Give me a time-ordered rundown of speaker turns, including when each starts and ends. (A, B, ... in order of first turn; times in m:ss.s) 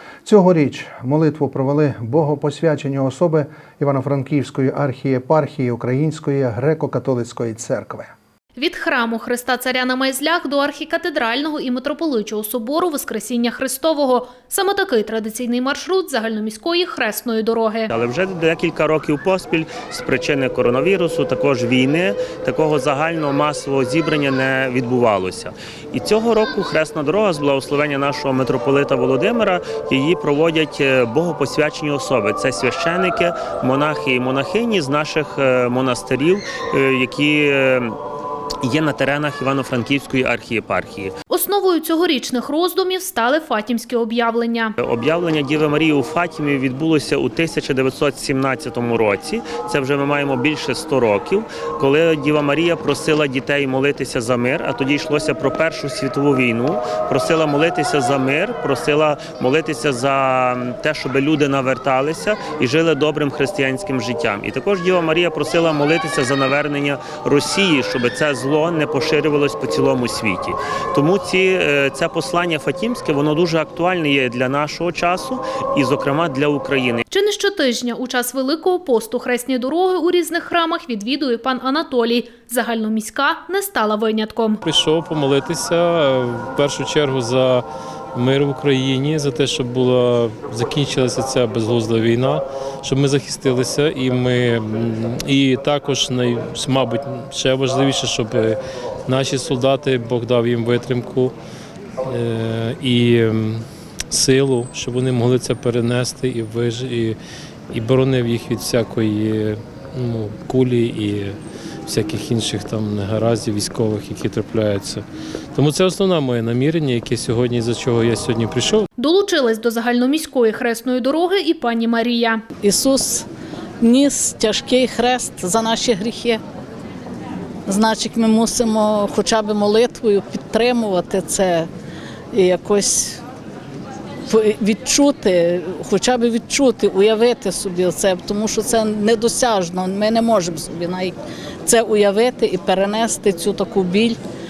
0:00.2-0:08.1 A
0:08.6-0:17.9 B
0:17.9-0:38.0 C
0:38.6-0:41.1 C
0:41.3-0:44.7 B
0:44.8-1:17.0 C
1:17.1-1:24.6 B
1:24.6-1:41.4 D
1:42.0-1:47.2 D
1:47.7-1:58.9 D
1:59.0-2:02.4 B
2:02.6-2:03.3 E
2:03.8-2:06.4 E
2:07.7-2:11.7 E
2:12.3-2:13.2 E
2:14.3-2:24.2 E